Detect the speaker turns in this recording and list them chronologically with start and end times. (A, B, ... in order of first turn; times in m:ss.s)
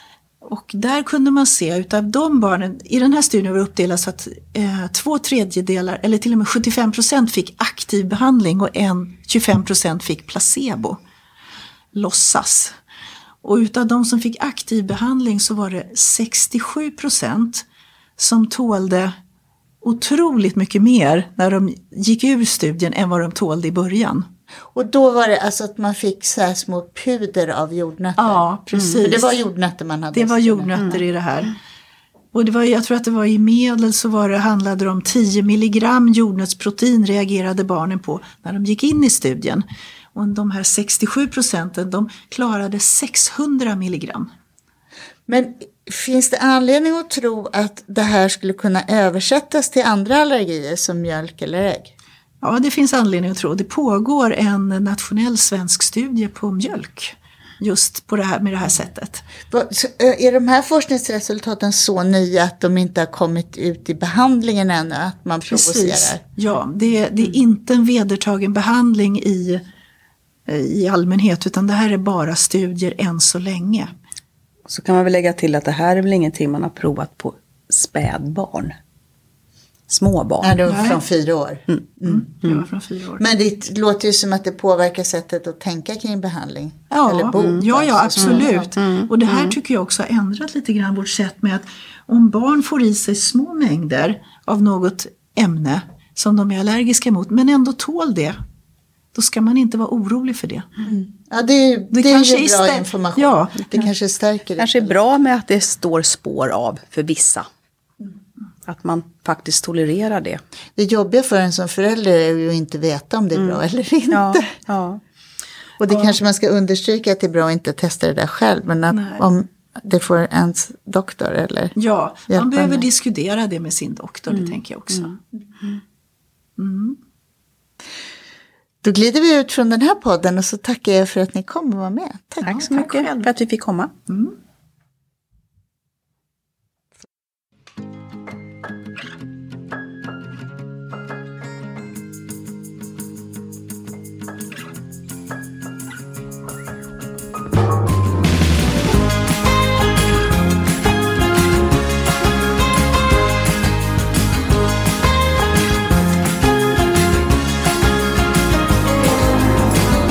0:00.4-0:11.0 A
0:11.9-0:12.8 A
0:13.4-0:17.6 A
0:18.2-0:19.2 A
0:19.8-0:24.3 A
0:24.7-0:30.9 B
0:28.2-0:29.3 A
0:30.1-0:31.5 A
0:32.3-0:44.3 A
0:45.3-0:51.9 B
0:52.4-0:59.2 A
0:59.5-1:06.2 B
1:05.5-1:09.6 A
1:10.4-1:13.9 A
1:14.7-1:18.7 C
1:19.9-1:20.6 C
1:20.4-1:22.2 B
1:20.6-1:21.0 A
1:22.0-1:23.2 A
1:23.2-1:28.7 B
1:26.9-1:38.4 A
1:27.4-1:27.6 C
1:28.2-1:29.5 C
1:39.1-1:40.7 A
1:40.8-1:45.0 B
1:41.9-1:43.6 A
1:44.6-1:47.5 C
1:48.6-1:50.4 C
1:50.8-1:54.5 B
1:53.3-1:55.0 C
1:55.8-2:01.7 B
1:58.9-1:59.2 A
2:01.8-2:05.2 A
2:02.3-2:02.8 B
2:04.3-2:05.1 C
2:06.6-2:07.0 A
2:08.8-2:12.6 B
2:12.4-2:13.9 C
2:12.4-2:13.1 A
2:14.1-2:14.3 A